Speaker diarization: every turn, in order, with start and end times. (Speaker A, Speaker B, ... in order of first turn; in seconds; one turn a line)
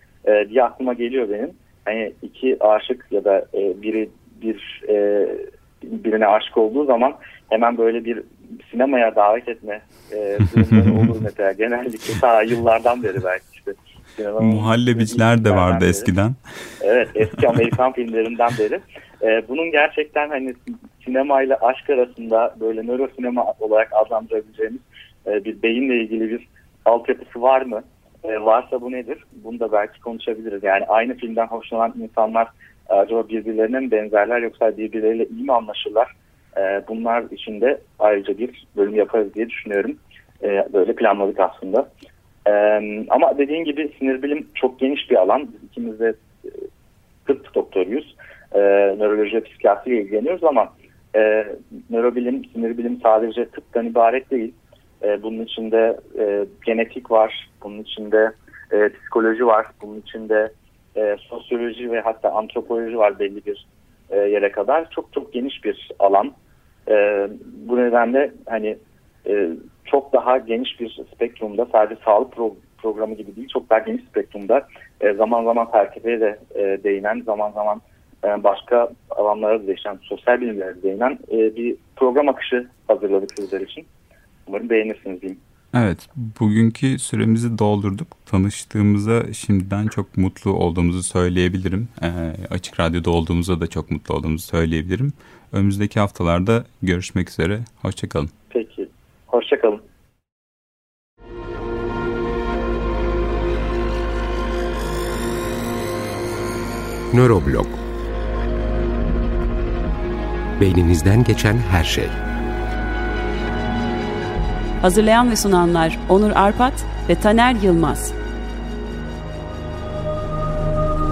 Speaker A: 0.2-16.1
Speaker B: 14.4-16.4
Speaker A: 16.8-41.9
Speaker A: 42.5-46.6
Speaker A: 47.2-66.3
Speaker A: 66.9-83.9
Speaker A: 84.5-85.4
Speaker B: 85.7-98.3
Speaker A: 98.5-99.8
Speaker C: 107.1-107.8
Speaker C: 110.6-112.2
Speaker D: 114.8-118.1